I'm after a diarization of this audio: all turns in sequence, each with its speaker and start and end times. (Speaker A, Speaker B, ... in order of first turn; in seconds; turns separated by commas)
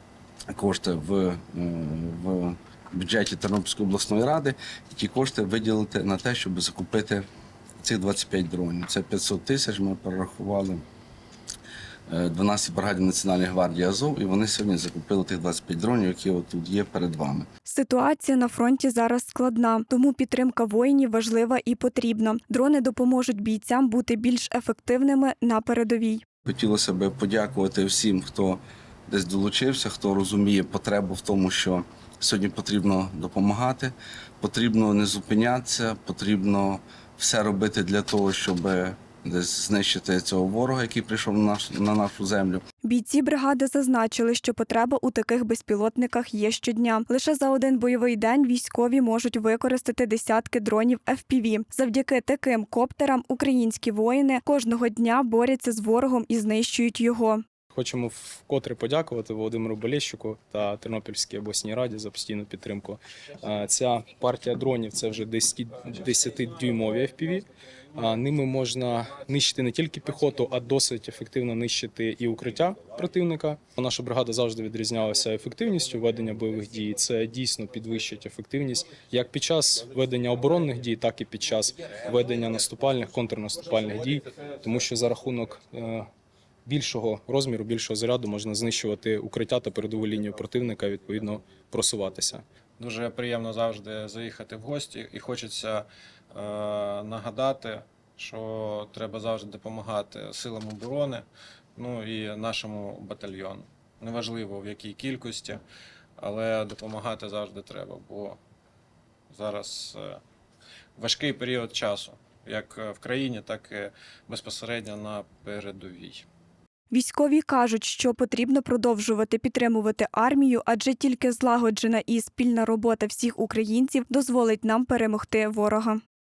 Speaker A: 0.5-7.2, Speaker A: 7.8-10.8, Speaker A: 12.1-17.5, Speaker B: 17.6-26.2, Speaker A: 26.4-42.6, Speaker B: 42.8-57.4, Speaker C: 57.8-86.0, Speaker C: 86.8-92.4, Speaker D: 92.8-105.6, Speaker D: 106.2-108.4, Speaker D: 109.3-110.2, Speaker D: 111.0-116.2, Speaker B: 116.9-126.0